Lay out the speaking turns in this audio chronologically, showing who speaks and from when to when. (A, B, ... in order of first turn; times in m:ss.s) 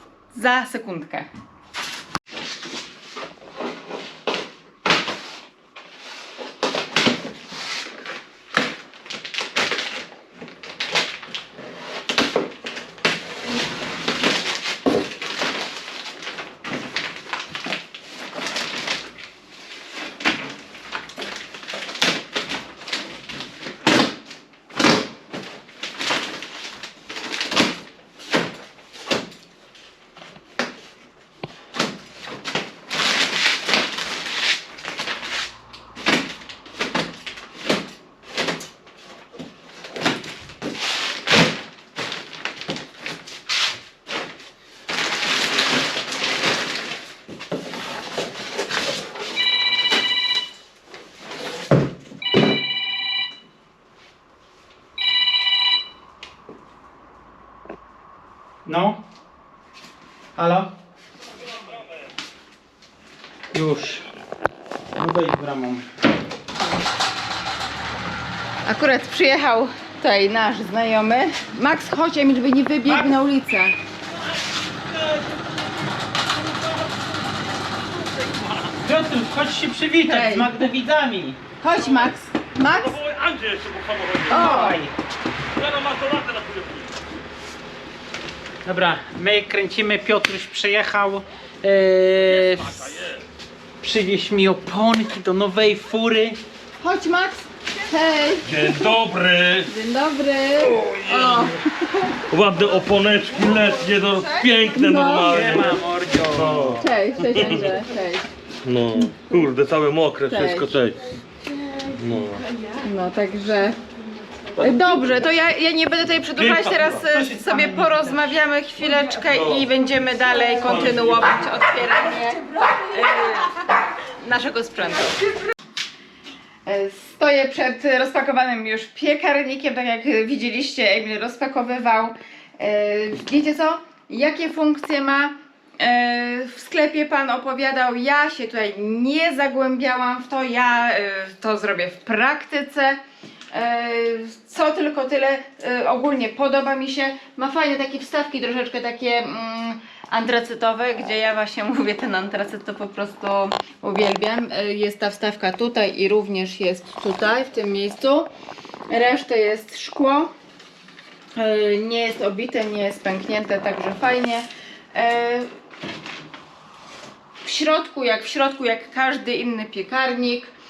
0:00.3-0:01.3 A
0:58.7-0:59.0 B
1:00.4-1:00.7 B
1:03.5-1:04.1 B
1:05.0-1:05.8 B
1:08.6-1:13.8 A
1:18.0-1:18.7 C
1:18.8-1:21.4 B
1:20.0-1:20.7 A
1:21.6-1:23.0 A
1:21.8-1:24.6 C
1:24.3-1:24.8 A
1:24.3-1:24.9 B
1:25.6-1:26.9 C
1:28.6-1:33.0 B
1:32.4-1:33.2 C
1:33.8-1:36.4 B
1:36.8-1:38.9 A
1:38.4-1:39.7 C
1:39.6-1:42.3 A
1:40.6-1:47.7 C
1:43.0-1:45.6 A
1:45.3-1:46.8 B
1:46.5-1:48.3 A
1:48.6-1:51.0 C
1:50.3-1:50.8 A
1:52.0-1:52.4 C
1:52.7-1:53.8 A
1:54.6-2:05.2 A
1:56.4-1:57.0 C
1:57.0-1:58.4 B
1:59.3-1:59.7 C
2:00.6-2:01.4 C
2:00.8-2:01.1 B
2:06.7-2:23.0 A
2:23.5-2:38.3 A
2:38.9-2:40.3 A
2:41.4-2:45.5 A
2:47.4-2:50.5 A